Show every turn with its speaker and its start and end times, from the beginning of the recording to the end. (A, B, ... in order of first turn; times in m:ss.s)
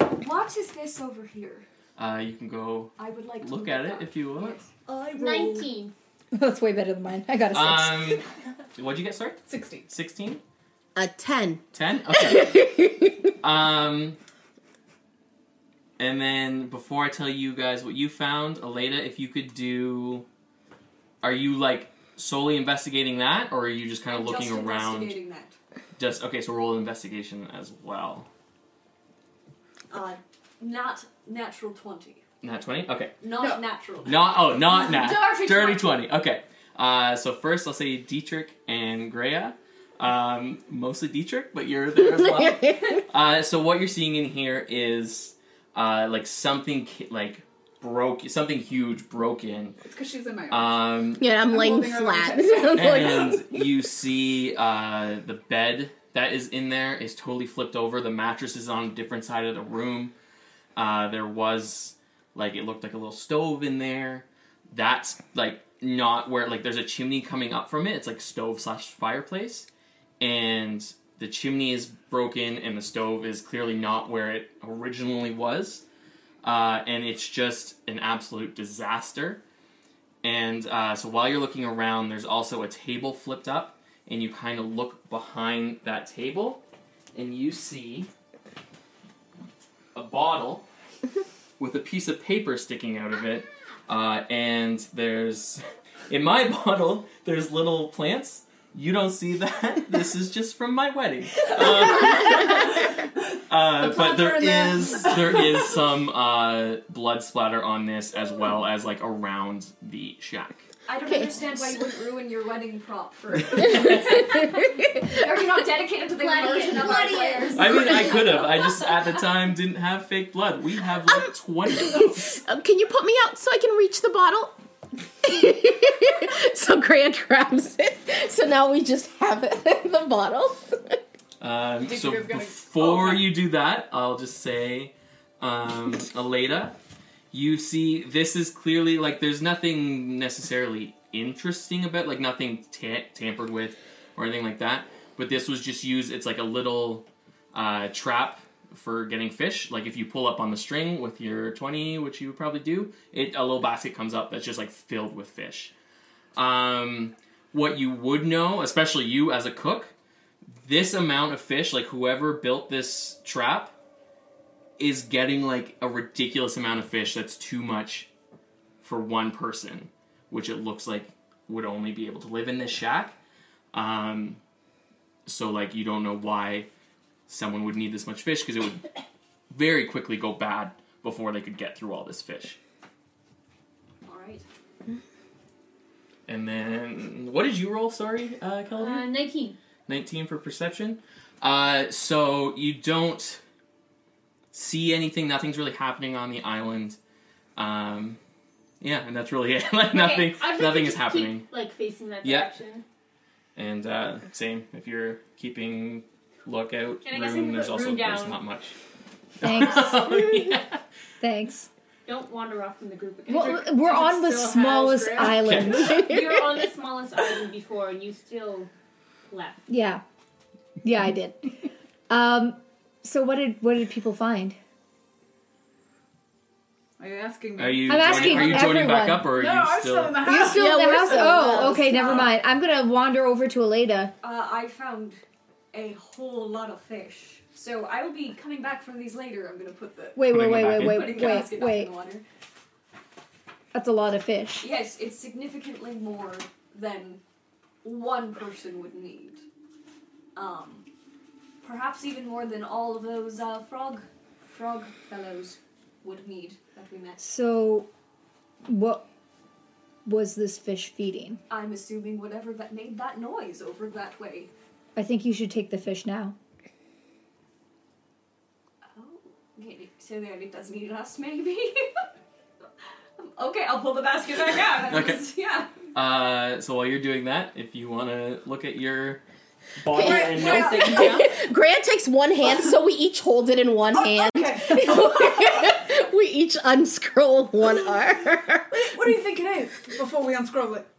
0:00.1-0:01.6 A
0:02.0-0:04.6 B
0:03.0-0:04.7 A
0:04.9-0:05.7 C
0:05.1-0:05.9 D
0:06.3-0:08.2 E
0:07.5-0:10.4 B
0:09.5-0:09.9 C
0:11.0-0:13.3 F
0:11.7-0:12.6 B
0:13.4-0:14.2 B
0:16.0-0:20.2 B
0:21.2-0:25.2 B
0:24.1-0:25.6 A
0:26.0-0:28.3 B
0:29.9-0:32.2 A
0:32.4-0:33.2 B
0:33.2-0:35.9 A
0:34.0-0:49.8 B
0:42.0-0:43.0 F
0:49.8-0:53.3 C
0:50.5-0:51.2 B
0:51.2-0:53.5 F
0:52.7-1:00.1 B
1:00.8-1:09.7 B
1:10.2-1:15.8 B
1:16.4-1:19.4 B
1:20.2-1:26.6 B
1:27.1-1:28.1 B
1:29.9-1:30.6 B
1:31.6-1:42.9 B
1:42.1-1:43.0 C
1:43.5-1:50.7 B
1:43.7-1:45.8 C
1:50.9-1:58.5 A
1:51.0-1:51.5 F
1:54.4-1:55.0 F
1:56.1-1:58.4 D
1:57.5-2:02.4 B
2:01.1-2:04.6 F
2:05.2-2:11.0 F
2:11.4-2:16.8 B
2:11.8-2:13.2 C
2:17.3-2:35.7 B
2:36.4-2:39.9 B
2:40.5-2:43.7 B
2:44.8-2:48.1 B
2:48.8-2:53.2 B
2:53.7-2:54.4 B
2:55.2-2:56.7 B
2:57.3-2:58.9 B
2:59.5-3:02.6 B
3:04.0-3:04.4 A
3:06.3-3:09.1 B
3:08.8-3:09.6 D
3:09.9-3:13.4 B
3:14.5-3:17.0 B
3:17.6-3:18.2 B
3:18.8-3:21.5 B
3:19.9-3:22.8 D
3:22.2-3:22.5 B
3:23.6-3:28.8 B
3:27.0-3:28.4 D
3:29.4-3:30.8 B
3:29.4-3:30.4 E
3:31.2-3:31.7 E
3:32.0-3:33.7 D
3:33.3-3:36.2 E
3:33.3-3:35.7 C
3:35.3-3:36.0 B
3:35.9-3:38.7 D
3:39.3-3:39.6 D
3:39.7-3:40.0 E
3:40.8-3:41.6 E
3:42.1-3:44.6 E
3:47.0-3:52.3 C
3:47.6-3:50.2 B
3:47.9-3:49.3 E
3:50.2-3:54.1 E
3:50.4-3:52.1 F
3:54.2-3:55.2 A
3:55.7-4:02.2 A
4:00.2-4:01.9 E
4:00.3-4:01.4 B
4:03.7-4:04.7 E
4:04.6-4:07.2 A
4:07.8-4:09.4 A
4:10.3-4:10.8 A
4:11.6-4:17.2 A
4:17.2-4:17.9 E
4:18.6-4:19.0 E
4:20.0-4:21.4 E
4:21.5-4:24.5 A
4:25.0-4:26.4 E
4:28.9-4:31.8 A
4:33.2-4:35.7 A
4:34.9-4:35.2 B
4:35.9-4:39.2 B
4:39.8-4:41.2 B
4:39.9-4:48.8 F
4:39.9-4:41.3 C
4:40.9-4:41.2 D
4:43.9-4:45.9 C
4:47.6-4:48.0 C
4:48.7-4:50.8 C